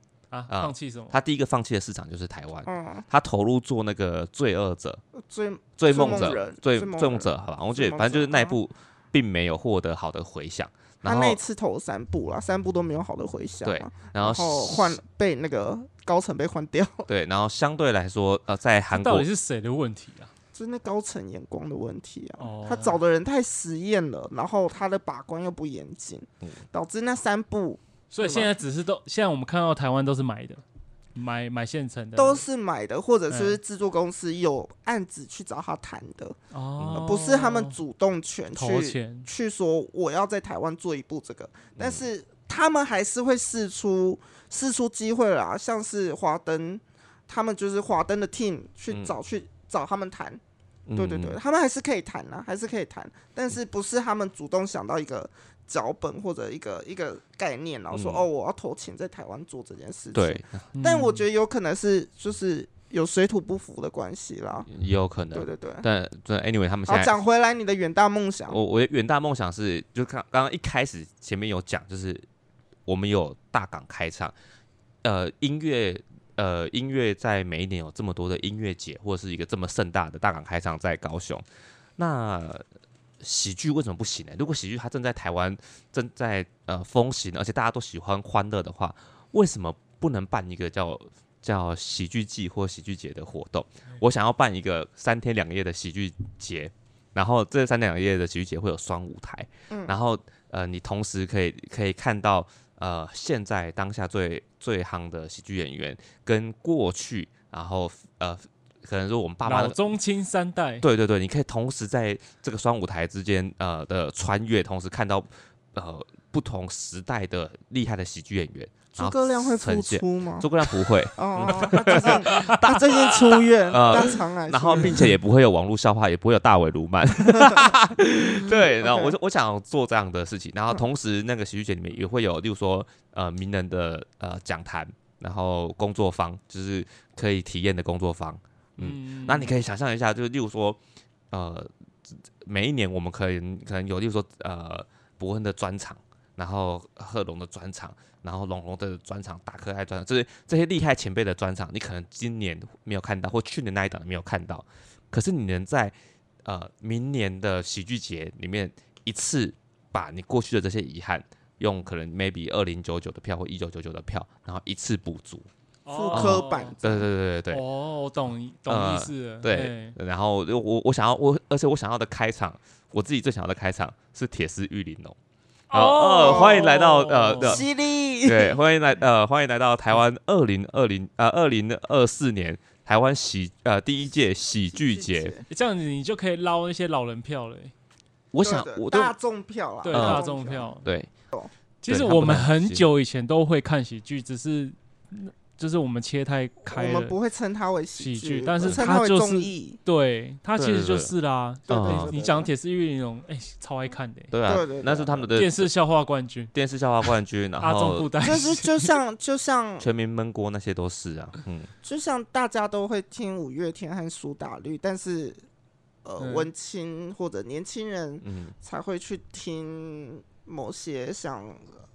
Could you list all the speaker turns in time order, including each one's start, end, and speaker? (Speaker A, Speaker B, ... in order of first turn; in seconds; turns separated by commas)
Speaker A: 0.3-1.1, Speaker B: 0.5-5.0, Speaker C: 2.6-3.0, Speaker C: 5.2-8.6, Speaker B: 5.8-11.4, Speaker C: 11.0-17.1, Speaker B: 13.6-15.0, Speaker B: 17.1-19.3, Speaker A: 18.9-20.3, Speaker C: 20.5-28.5, Speaker A: 22.4-23.0, Speaker A: 28.1-30.6, Speaker A: 31.1-32.4, Speaker C: 32.1-36.4, Speaker A: 33.3-33.6, Speaker A: 36.5-37.8, Speaker C: 36.9-50.4, Speaker A: 38.5-39.3, Speaker B: 50.9-51.4, Speaker C: 51.0-64.7, Speaker B: 57.9-58.2, Speaker B: 60.1-60.7, Speaker A: 60.7-61.2, Speaker B: 64.7-67.2, Speaker C: 65.3-65.8, Speaker C: 66.9-68.6, Speaker B: 68.5-72.2, Speaker B: 72.9-74.3, Speaker B: 75.0-81.4, Speaker B: 82.0-82.6, Speaker B: 83.2-109.9, Speaker C: 99.7-100.0, Speaker A: 109.4-110.8, Speaker B: 110.8-140.8, Speaker C: 118.9-125.1, Speaker A: 121.4-122.6, Speaker C: 127.3-127.7, Speaker C: 128.8-129.1, Speaker A: 138.8-139.5, Speaker B: 141.3-165.5, Speaker A: 165.8-166.7, Speaker C: 165.9-167.1, Speaker B: 166.1-167.6, Speaker A: 167.5-169.9, Speaker B: 168.7-175.2, Speaker A: 175.7-177.6, Speaker B: 175.7-177.6, Speaker C: 176.2-176.8, Speaker C: 177.4-178.6, Speaker B: 178.2-185.3, Speaker C: 184.7-185.4, Speaker A: 185.5-187.7, Speaker B: 188.3-189.1, Speaker C: 188.4-190.7, Speaker A: 189.8-190.9, Speaker B: 189.9-190.2, Speaker B: 190.8-191.1, Speaker A: 191.8-197.2, Speaker B: 191.9-192.9, Speaker C: 196.7-199.8, Speaker A: 198.0-204.3, Speaker B: 200.6-201.1, Speaker C: 201.7-202.5, Speaker B: 201.7-202.1, Speaker B: 204.3-205.7, Speaker C: 204.4-205.3, Speaker A: 205.3-206.5, Speaker B: 206.5-208.5, Speaker A: 207.6-208.8, Speaker C: 208.2-209.9, Speaker B: 209.8-211.7, Speaker C: 211.8-215.4, Speaker C: 216.0-221.7, Speaker A: 216.2-216.5, Speaker B: 218.2-218.5